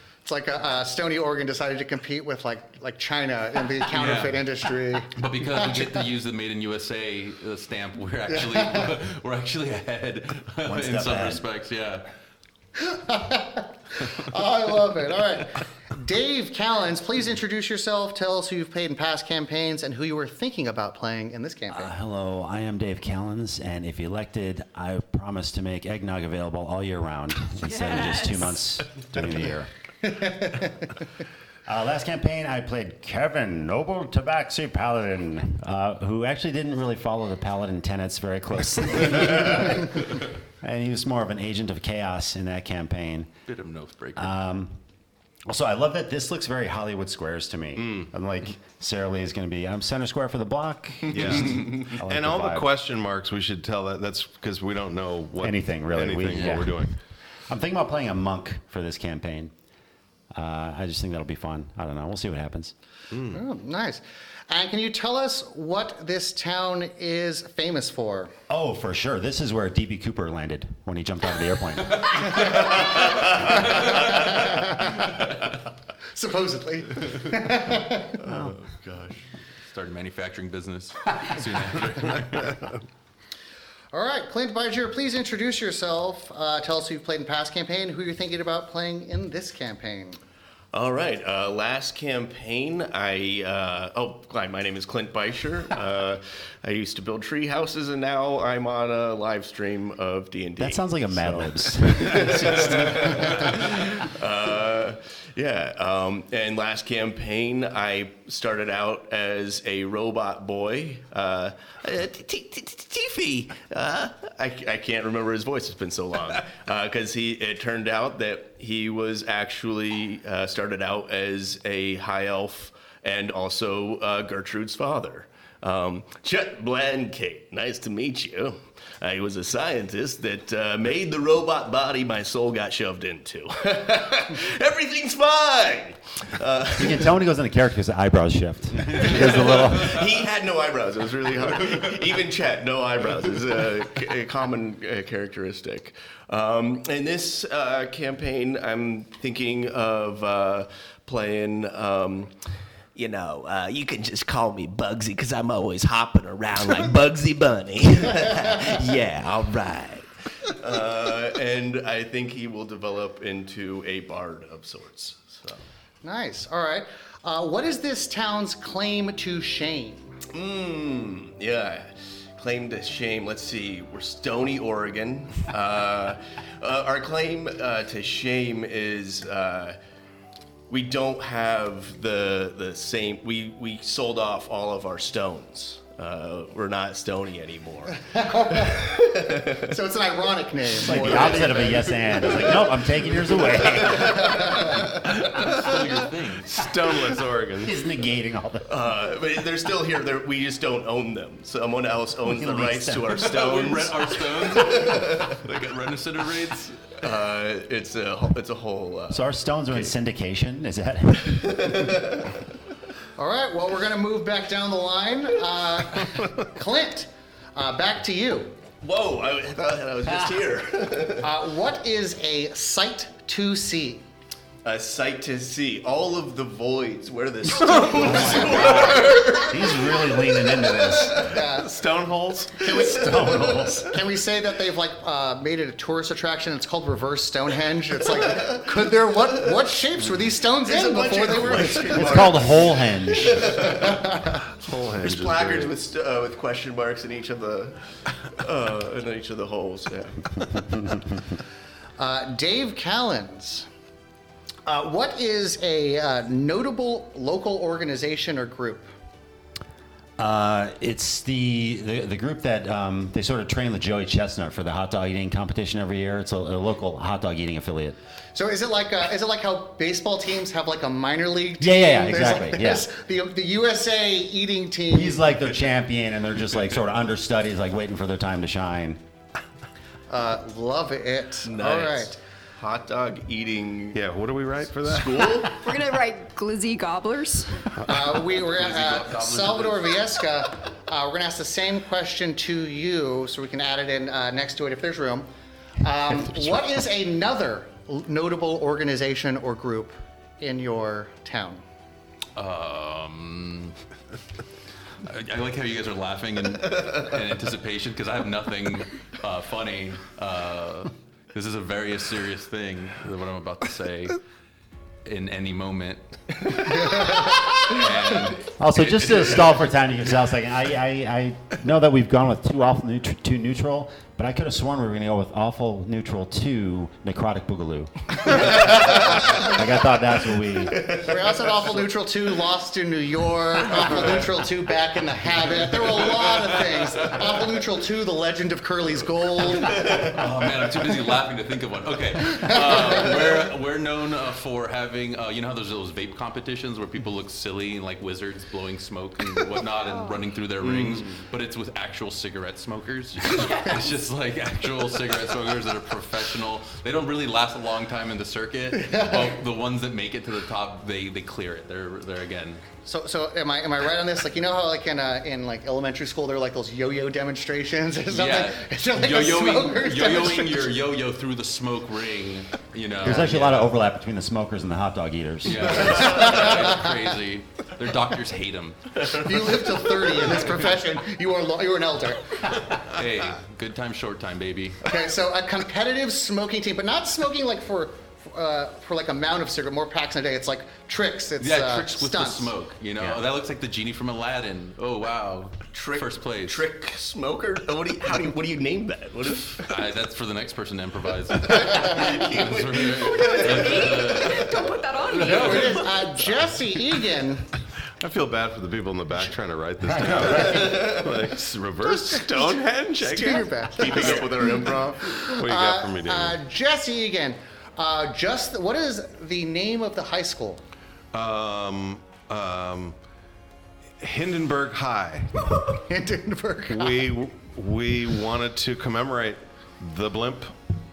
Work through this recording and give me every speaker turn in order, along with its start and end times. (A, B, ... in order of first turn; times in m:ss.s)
0:00.2-0:06.0 A
0:03.9-0:04.4 B
0:05.2-0:12.1 B
0:08.3-0:08.9 A
0:10.6-0:11.4 C
0:12.8-0:21.9 A
0:21.7-0:29.7 C
0:30.0-0:30.7 A
0:31.7-0:43.3 C
0:43.5-0:44.3 B
0:44.2-0:44.8 C
0:45.5-0:52.7 C
0:47.8-0:48.1 D
0:51.1-0:57.0 D
0:55.4-0:57.0 C
0:57.5-0:59.5 C
1:00.3-1:02.7 C
1:03.1-1:03.4 D
1:03.3-1:08.3 A
1:08.5-1:12.5 C
1:12.6-1:15.5 A
1:16.2-1:18.2 A
1:18.2-1:19.2 E
1:19.7-1:22.7 B
1:23.9-1:30.2 A
1:30.7-2:17.1 E
1:40.6-1:43.7 C
2:16.8-2:20.1 C
2:18.9-2:32.3 E
2:33.0-2:45.6 E
2:46.0-2:50.1 A
2:50.3-2:59.8 E
3:00.7-3:08.0 E
3:08.0-3:12.5 A
3:08.6-3:09.6 E
3:10.7-3:14.7 C
3:10.9-3:15.2 E
3:14.7-3:16.5 B
3:15.3-3:17.8 D
3:17.6-3:18.7 C
3:18.7-3:25.8 E
3:22.3-3:23.3 C
3:23.1-3:27.0 B
3:27.0-3:29.3 E
3:29.1-3:32.0 C
3:31.3-3:32.3 E
3:33.2-3:38.6 A
3:38.8-3:41.3 E
3:41.2-3:44.0 A
3:44.6-3:51.3 E
3:47.9-3:51.4 C
3:51.1-3:51.7 A
3:51.5-3:52.7 D
3:52.6-3:54.0 C
3:52.8-3:53.8 E
3:53.9-4:02.4 A
4:00.6-4:04.0 E
4:01.8-4:03.6 C
4:03.7-4:04.3 A
4:04.5-4:05.8 D
4:05.0-4:10.2 E
4:12.0-4:13.7 A
4:14.7-4:18.9 A
4:20.2-4:28.0 C
4:28.3-4:35.2 A
4:31.6-4:32.9 C
4:34.9-4:39.0 C
4:40.1-4:42.2 A
4:41.4-4:44.0 E
4:43.9-4:45.3 D
4:44.8-4:45.6 E
4:45.5-4:47.6 F
4:47.8-4:55.3 A
4:48.4-4:50.0 B
4:55.8-5:01.6 A
5:02.4-5:03.8 B
5:05.0-5:14.2 B
5:15.0-5:19.5 B
5:18.6-5:30.8 C
5:28.8-5:29.5 E
5:30.7-5:31.6 E
5:31.0-5:40.2 A
5:39.7-5:40.1 E
5:40.1-6:02.6 B
5:42.4-5:43.1 A
5:49.9-5:50.2 F
5:50.6-5:51.3 E
5:53.3-5:53.8 F
5:58.7-5:59.4 A
6:02.8-6:10.7 A
6:08.1-6:13.7 B
6:13.0-6:16.2 C
6:15.4-6:19.0 B
6:15.9-6:16.8 A
6:19.1-6:22.6 A
6:22.9-6:24.8 B
6:24.8-6:32.5 A
6:31.4-6:36.6 B
6:35.7-6:39.8 E
6:39.5-6:46.2 B
6:41.4-6:44.7 E
6:43.3-6:45.9 F
6:45.2-6:47.5 A
6:48.0-6:54.3 D
6:49.8-6:50.9 C
6:50.4-6:51.3 E
6:53.0-7:00.6 A
6:53.7-6:55.2 E
6:55.2-6:56.4 D
7:01.1-7:03.0 D
7:04.0-7:05.4 D
7:05.7-7:07.2 A
7:06.7-7:10.5 D